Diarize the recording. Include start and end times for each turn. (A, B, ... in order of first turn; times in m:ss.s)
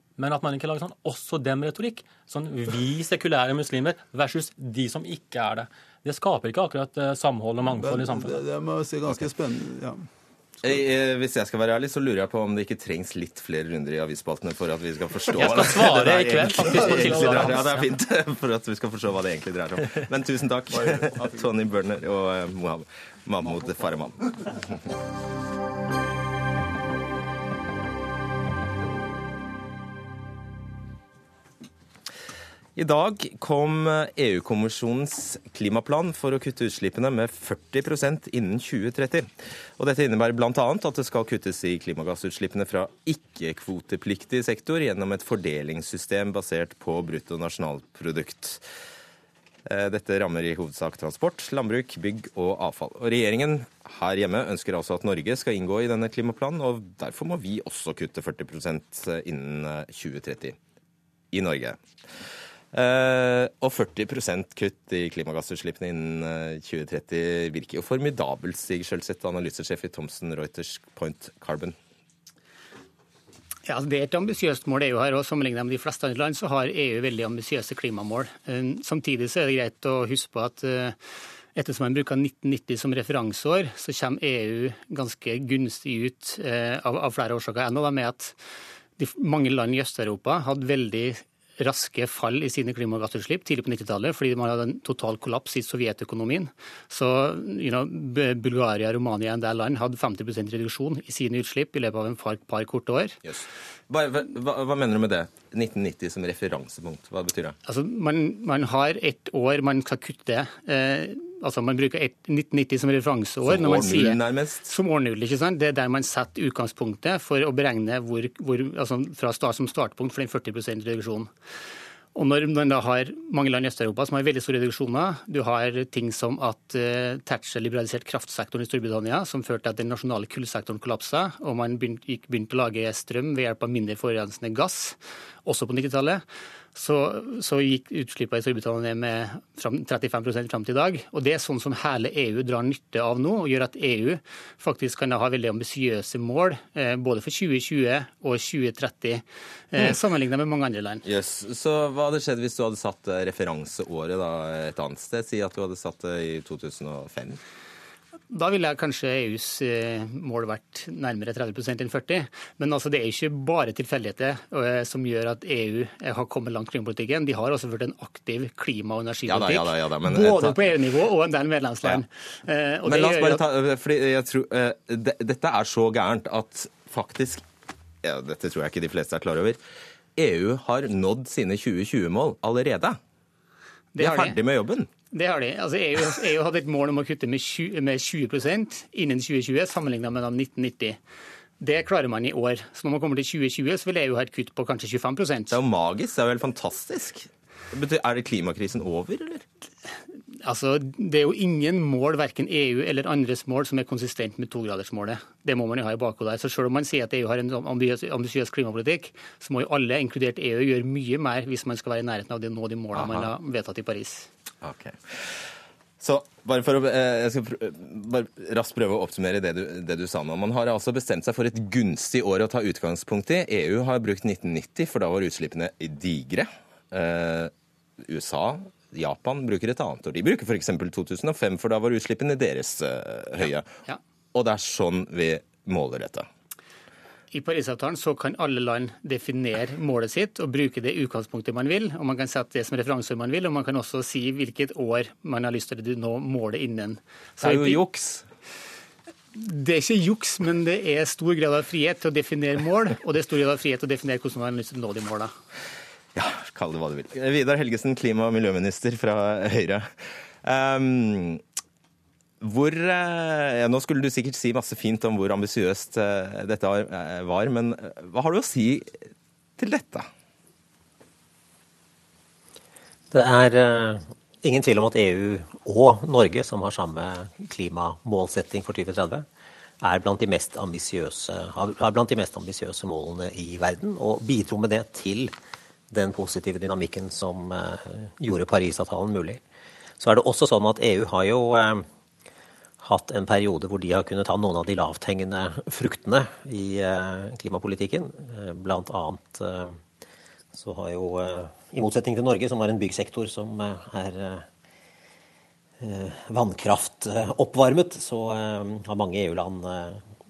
0:00.2-0:08.4 A
0:07.6-0:10.0 B
0:10.6-0:24.5 C
0:15.4-0:17.9 A
0:32.8-0:48.6 C
0:49.6-1:00.6 C
1:01.3-1:01.8 C
1:02.7-1:11.8 C
1:13.6-1:21.0 D
1:21.5-1:28.4 D
1:29.0-1:43.2 D
1:43.2-1:47.6 C
1:47.6-2:01.3 D
1:53.4-1:54.6 C
2:02.1-2:16.2 D
2:16.7-2:31.0 D
2:31.0-2:37.4 C
2:38.3-2:53.4 D
2:49.3-2:50.6 C
2:52.9-2:57.4 C
2:58.0-2:59.6 C
3:00.2-3:03.0 C
3:03.9-3:04.4 D
3:04.0-3:04.9 C
3:05.1-3:11.0 D
3:11.6-3:15.6 D
3:15.5-3:19.4 C
3:20.4-3:34.3 D
3:32.9-3:33.3 C
3:34.6-3:53.7 C
3:54.3-3:56.3 C
3:57.3-4:07.9 D
4:07.4-4:08.2 C
4:09.3-4:15.3 D
4:16.1-4:19.9 C
4:20.4-4:21.4 C
4:22.4-4:29.0 C
4:29.6-4:30.1 C
4:33.1-4:39.2 E
4:39.8-4:45.3 E
4:45.9-4:49.4 E
4:50.0-4:51.9 E
4:52.8-4:59.8 E
5:00.5-5:04.4 E
5:05.8-5:10.0 E